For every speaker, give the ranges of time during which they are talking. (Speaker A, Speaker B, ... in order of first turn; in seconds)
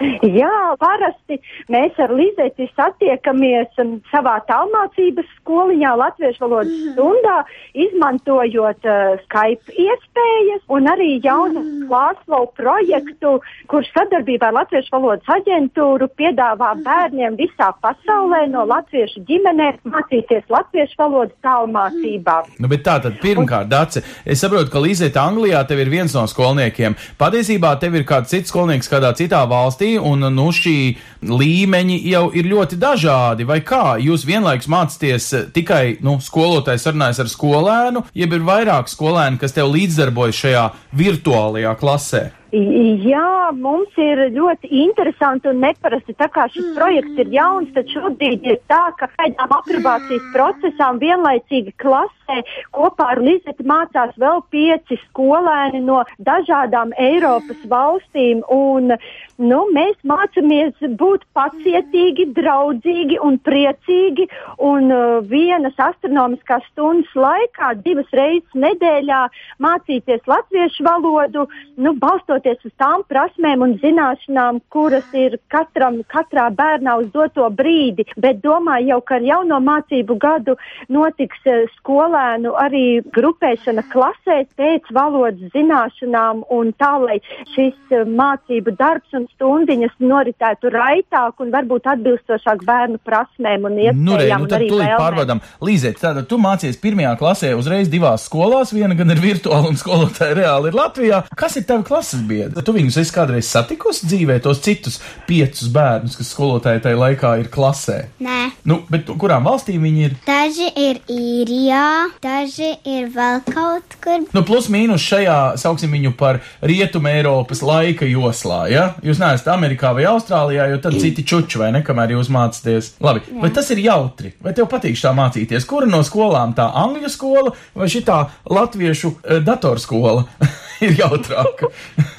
Speaker A: 0.2-22.5, 42.5-95.2
Speaker B: 22.6-42.3, 93.8-108.1, 108.7-110.2, 114.3-131.7
Speaker C: 108.2-108.5, 110.2-114.3, 123.3-123.6